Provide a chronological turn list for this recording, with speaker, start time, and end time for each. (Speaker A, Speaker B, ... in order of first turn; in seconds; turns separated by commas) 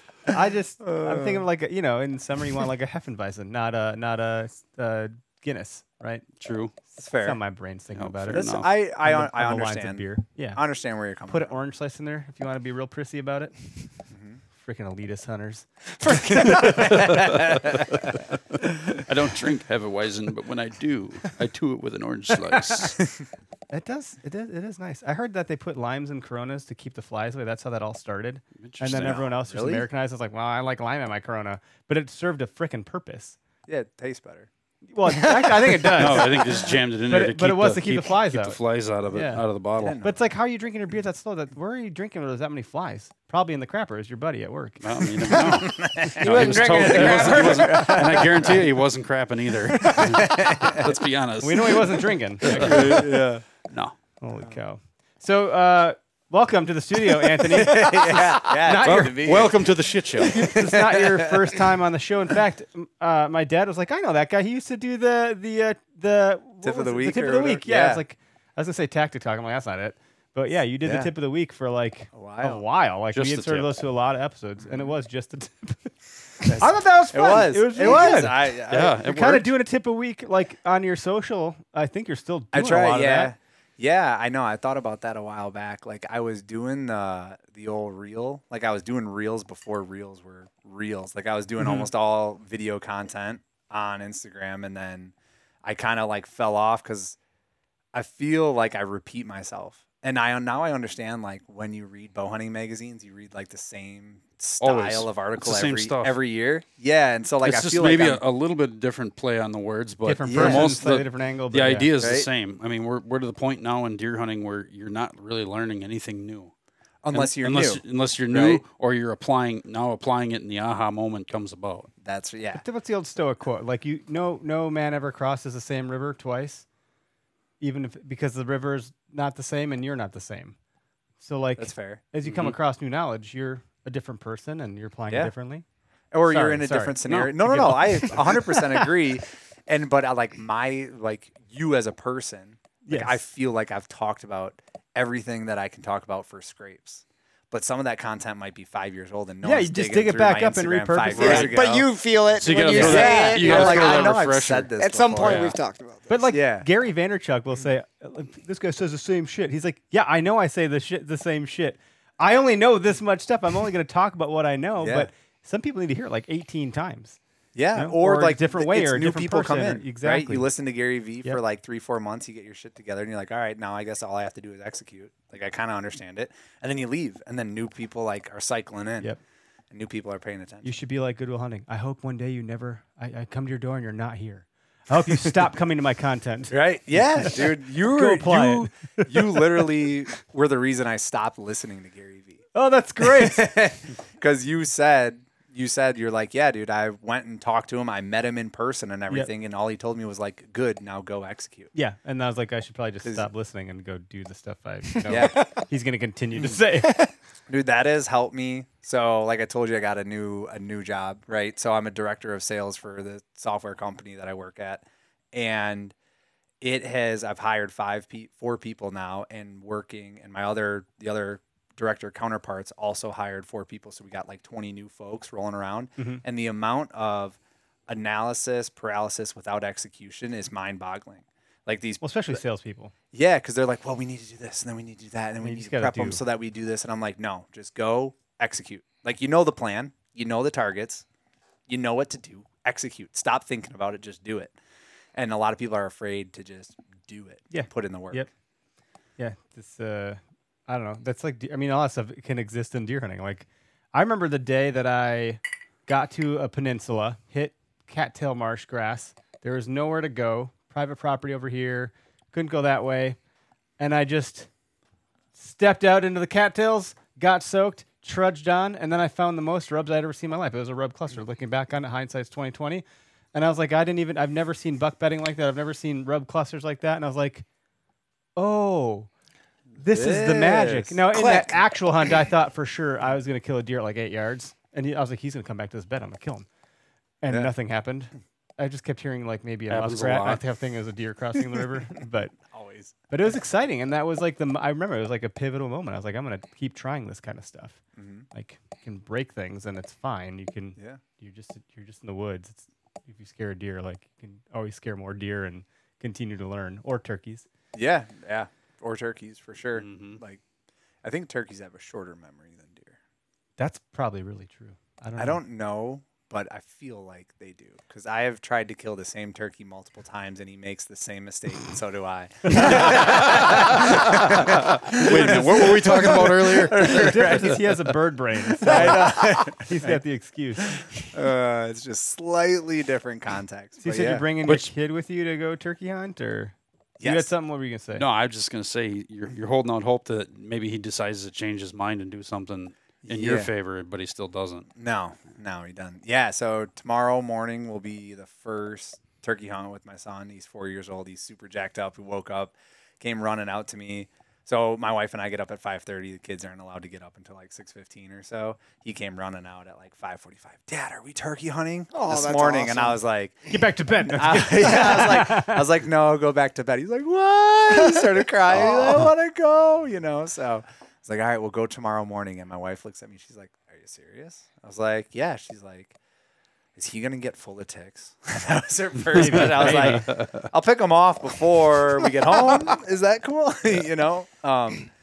Speaker A: 0.3-6.2, Speaker B: 0.3-1.4, Speaker C: 6.4-6.7, Speaker B: 6.9-7.4, Speaker A: 7.2-10.6, Speaker C: 7.9-8.7, Speaker B: 8.3-11.5, Speaker A: 11.2-13.5, Speaker B: 14.1-14.4, Speaker A: 14.6-16.6, Speaker B: 16.3-18.0, Speaker C: 16.6-17.5, Speaker C: 18.9-23.0, Speaker A: 23.7-33.4, Speaker C: 28.6-29.2, Speaker B: 29.0-29.9, Speaker B: 33.7-34.5, Speaker A: 34.9-38.6, Speaker B: 35.3-36.4, Speaker C: 36.0-40.0, Speaker A: 39.1-39.4, Speaker B: 39.8-40.3, Speaker A: 40.0-47.5, Speaker C: 44.8-53.9, Speaker B: 45.3-48.7, Speaker D: 46.3-47.7, Speaker B: 49.8-50.9, Speaker A: 51.4-53.0, Speaker B: 52.5-53.4, Speaker A: 54.2-59.2, Speaker B: 57.4-59.7, Speaker C: 58.8-60.4, Speaker B: 60.2-61.5, Speaker A: 60.3-76.0, Speaker B: 66.6-68.0, Speaker B: 70.8-71.1, Speaker B: 72.1-72.6, Speaker C: 73.1-73.7, Speaker B: 76.4-79.2, Speaker A: 76.5-83.3, Speaker C: 78.7-79.5, Speaker B: 82.5-97.2, Speaker B: 97.9-108.2, Speaker C: 104.6-106.1, Speaker C: 107.4-116.5, Speaker A: 110.0-111.9, Speaker B: 110.2-110.8, Speaker B: 112.0-112.3, Speaker B: 117.0-118.6, Speaker C: 117.1-121.9, Speaker B: 122.0-122.6, Speaker A: 122.5-126.6, Speaker A: 127.6-130.6, Speaker A: 131.2-135.6, Speaker B: 131.6-132.0, Speaker B: 136.1-151.9, Speaker A: 136.3-138.9, Speaker A: 142.8-143.2, Speaker A: 149.4-151.5, Speaker D: 151.1-154.2, Speaker C: 152.3-155.6, Speaker A: 152.6-153.6, Speaker B: 152.7-155.5, Speaker D: 154.8-156.2, Speaker A: 156.1-167.2, Speaker B: 156.3-156.7, Speaker B: 164.8-165.1, Speaker B: 167.5-179.1, Speaker A: 167.7-170.5, Speaker B: 179.7-180.7, Speaker A: 180.6-186.6, Speaker B: 186.5-192.4, Speaker A: 187.1-189.4, Speaker A: 192.5-193.6, Speaker B: 193.0-201.7, Speaker A: 201.7-207.1, Speaker B: 205.0-205.5, Speaker D: 205.1-205.5, Speaker B: 207.5-215.9, Speaker B: 216.6-232.4, Speaker A: 226.0-226.2, Speaker A: 232.0-232.9, Speaker B: 233.1-241.0, Speaker A: 235.4-236.2, Speaker B: 241.7-244.5, Speaker B: 245.1-248.3, Speaker A: 247.5-248.3, Speaker A: 249.2-263.2, Speaker A: 263.8-264.5, Speaker A: 265.4-277.4, Speaker A: 278.4-279.1, Speaker A: 279.8-286.4, Speaker B: 279.8-281.5, Speaker A: 287.2-292.3, Speaker C: 289.7-290.4, Speaker B: 292.5-292.9, Speaker A: 293.1-297.8, Speaker B: 298.0-298.2, Speaker A: 298.3-307.4, Speaker B: 307.7-310.4, Speaker C: 309.8-310.2, Speaker B: 311.0-313.0, Speaker A: 313.6-315.4, Speaker B: 315.2-327.6, Speaker A: 322.5-322.9, Speaker C: 322.6-327.5, Speaker A: 326.7-330.8, Speaker B: 328.6-330.0, Speaker B: 331.1-334.2, Speaker A: 333.8-338.0, Speaker C: 334.4-334.7, Speaker B: 337.0-337.3, Speaker C: 338.0-344.7, Speaker B: 343.0-343.5, Speaker B: 344.8-363.5, Speaker D: 361.9-363.0, Speaker A: 363.5-365.6, Speaker B: 364.0-375.9, Speaker D: 368.5-369.0, Speaker B: 376.8-384.9, Speaker A: 379.1-380.1, Speaker C: 379.2-380.4